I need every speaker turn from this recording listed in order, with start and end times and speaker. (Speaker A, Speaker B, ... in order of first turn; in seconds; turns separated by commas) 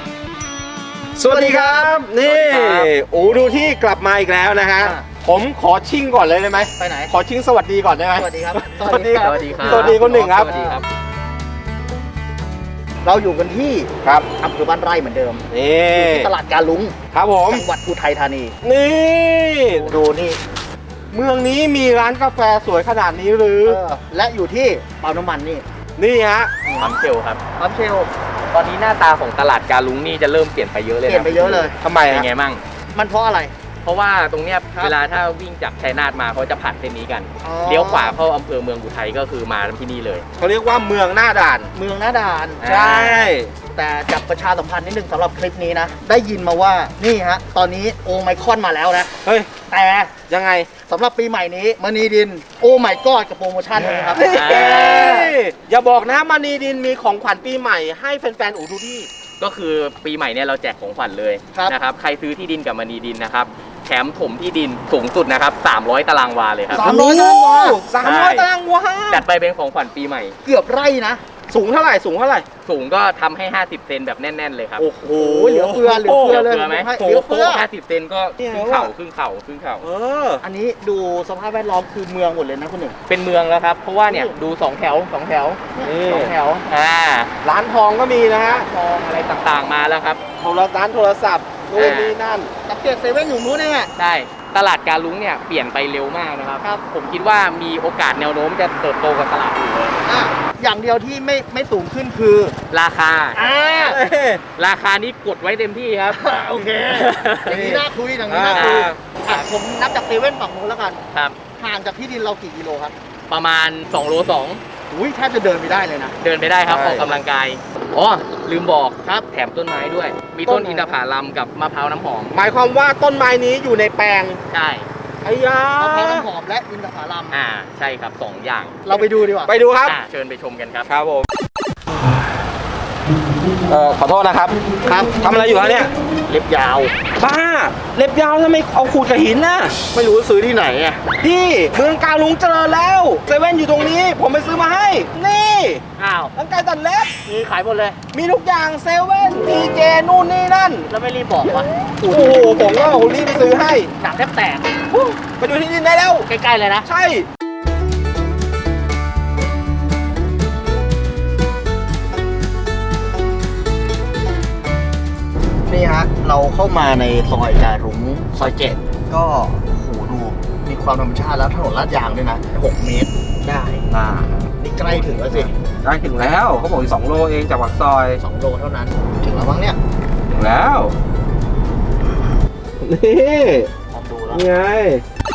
Speaker A: 1.2-10.5, Speaker B: 1.3-1.9, Speaker C: 2.2-2.9, Speaker B: 4.8-5.1, Speaker B: 6.8-7.2, Speaker B: 8.1-10.8, Speaker C: 9.1-10.8, Speaker B: 13.0-17.0, Speaker A: 15.5-16.3, Speaker A: 17.1-17.7, Speaker B: 17.5-18.6, Speaker A: 18.6-19.9, Speaker B: 19.7-20.4, Speaker A: 21.1-23.8, Speaker B: 23.7-25.6, Speaker A: 26.0-26.5, Speaker B: 26.7-26.9, Speaker C: 26.8-27.4, Speaker B: 27.6-28.1, Speaker C: 28.5-32.6, Speaker B: 31.1-31.8, Speaker A: 31.8-32.3, Speaker B: 32.9-33.5, Speaker C: 33.8-40.2, Speaker B: 37.4-38.2, Speaker A: 40.4-41.7, Speaker B: 41.7-42.6, Speaker C: 42.6-43.3, Speaker A: 42.6-43.5, Speaker B: 43.7-49.1, Speaker A: 49.2-49.5, Speaker B: 49.7-50.1, Speaker A: 50.3-50.7, Speaker B: 50.9-55.3, Speaker A: 53.8-59.1, Speaker C: 54.3-55.3, Speaker C: 59.4-66.9, Speaker B: 66.7-67.9, Speaker A: 66.8-69.3, Speaker C: 68.0-68.5, Speaker C: 69.1-70.4, Speaker B: 70.4-71.2, Speaker A: 71.5-72.5, Speaker C: 72.7-74.9, Speaker A: 74.8-77.5, Speaker B: 75.1-77.7, Speaker C: 76.1-79.8, Speaker A: 78.4-78.9, Speaker A: 79.8-80.4, Speaker B: 80.4-83.0, Speaker C: 83.1-85.6, Speaker B: 84.1-84.3, Speaker B: 85.8-86.7, Speaker A: 85.8-86.4, Speaker C: 86.7-87.3, Speaker A: 87.4-88.7, Speaker C: 88.5-90.2, Speaker A: 90.4-92.5, Speaker C: 91.8-92.2, Speaker B: 92.7-93.9, Speaker C: 94.0-100.0, Speaker B: 100.0-102.6, Speaker C: 102.7-103.4, Speaker B: 103.3-104.0, Speaker A: 103.8-104.4, Speaker C: 104.6-106.2, Speaker B: 106.1-111.0, Speaker C: 106.9-107.7, Speaker A: 107.5-109.0, Speaker C: 108.5-109.5, Speaker C: 111.1-111.4, Speaker B: 111.6-113.0, Speaker C: 113.3-114.6, Speaker B: 114.9-116.2, Speaker C: 116.2-122.4, Speaker A: 116.7-117.1, Speaker B: 120.5-121.0, Speaker A: 122.3-124.4, Speaker C: 124.5-124.9, Speaker A: 125.2-126.3, Speaker B: 125.8-127.4, Speaker C: 127.3-128.8, Speaker B: 128.9-129.5, Speaker A: 128.9-130.0, Speaker C: 129.8-130.9, Speaker A: 130.9-131.3, Speaker A: 133.7-134.6, Speaker B: 134.8-135.2, Speaker A: 135.2-135.9, Speaker B: 136.3-136.9, Speaker A: 137.2-139.8, Speaker B: 139.9-141.1, Speaker A: 141.2-145.8, Speaker B: 146.0-146.3, Speaker A: 146.3-147.1, Speaker B: 147.3-148.0, Speaker A: 148.1-150.9, Speaker B: 150.9-152.6, Speaker A: 152.1-153.9, Speaker B: 154.0-154.8, Speaker A: 154.9-156.3, Speaker B: 156.3-156.9, Speaker A: 156.8-157.3, Speaker B: 165.7-173.9, Speaker A: 173.9-178.2, Speaker B: 174.6-175.5, Speaker B: 178.2-179.8, Speaker A: 180.3-180.9, Speaker A: 182.8-183.7, Speaker B: 183.9-184.5, Speaker A: 184.3-185.0